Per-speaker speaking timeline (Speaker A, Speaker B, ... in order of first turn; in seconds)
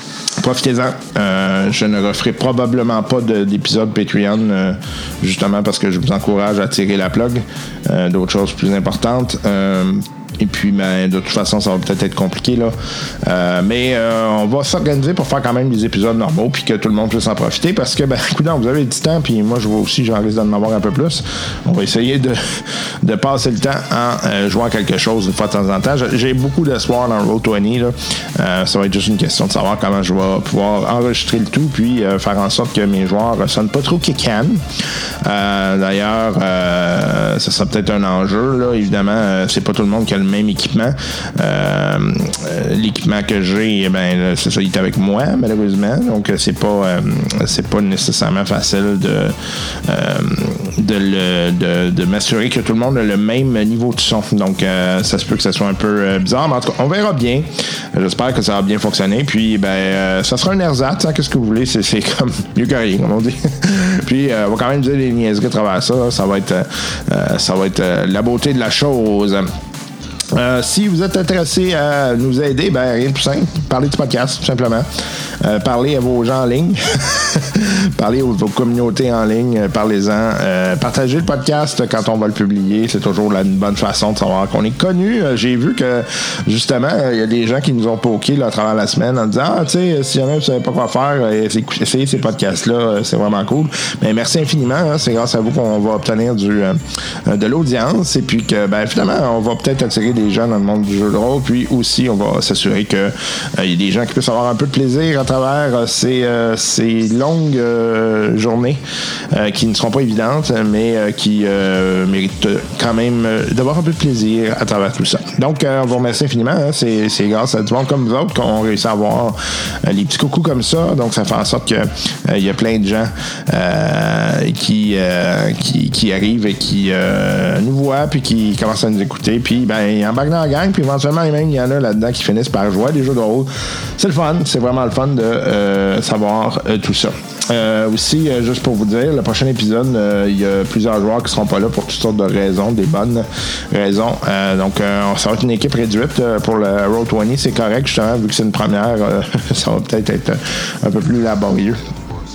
Speaker A: 0.4-69.5, 70.3-74.9, 75.4-151.9